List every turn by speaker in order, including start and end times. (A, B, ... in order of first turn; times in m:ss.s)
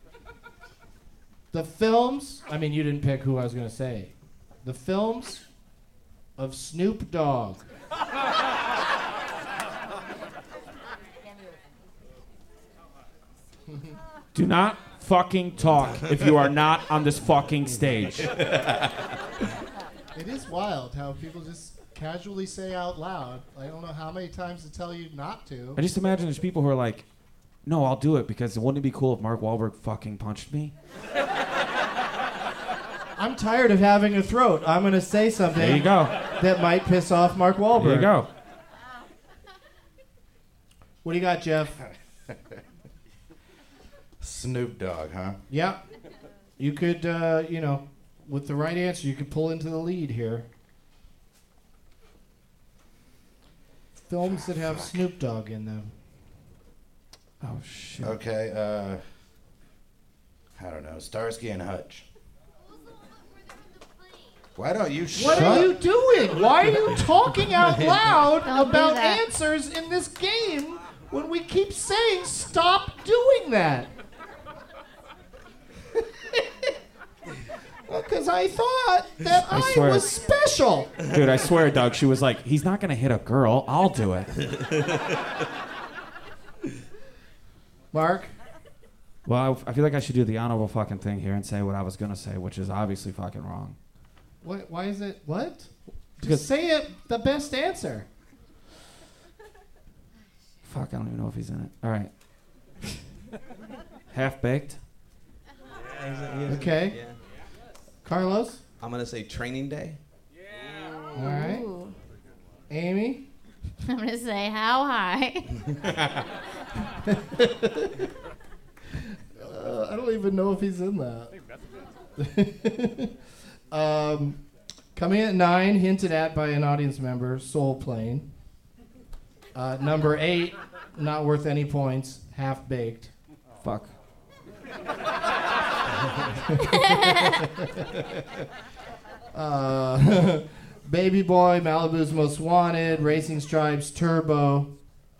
0:01.5-0:04.1 A
0:04.6-0:05.4 A
0:06.4-0:07.6 A
0:14.3-0:18.3 B
0:15.9-0:16.3 C
0:17.6-0:18.3 A
0:18.2-0:19.0 C
0:20.1-0:25.8 A
0:25.8-0:27.0 B
0:27.6-0:30.7 B
0:33.2-0:38.1 A
0:35.5-0:36.2 B
0:37.8-0:38.3 B
0:41.0-0:41.8 A
0:44.2-0:45.4 D
0:45.5-0:45.8 A
0:46.6-0:50.4 A
0:54.1-0:55.9 A
0:54.3-0:54.9 D
0:57.4-0:58.2 B
0:58.0-0:59.0 D
1:00.6-1:02.0 D
1:04.6-1:05.7 D
1:05.1-1:13.9 A
1:05.3-1:05.6 B
1:08.4-1:09.2 E
1:17.9-1:20.9 A
1:19.4-1:20.2 B
1:21.1-1:24.3 B
1:27.9-1:28.3 A
1:29.2-1:33.8 B
1:34.4-1:38.0 A
1:40.6-1:42.1 B
1:44.1-1:44.8 B
1:46.0-1:47.2 C
1:46.5-1:47.0 A
1:48.0-1:48.6 A
1:48.8-1:50.0 C
1:51.1-1:51.6 A
1:51.1-1:51.9 E
1:52.7-1:53.2 A
1:53.8-1:55.6 E
1:57.1-1:57.9 A
1:59.0-2:01.3 A
2:02.2-2:03.1 A
2:03.7-2:04.4 A
2:04.9-2:08.3 A
2:09.5-2:13.1 A
2:13.6-2:13.9 B
2:16.5-2:17.8 A
2:16.6-2:17.4 E
2:19.3-2:24.7 A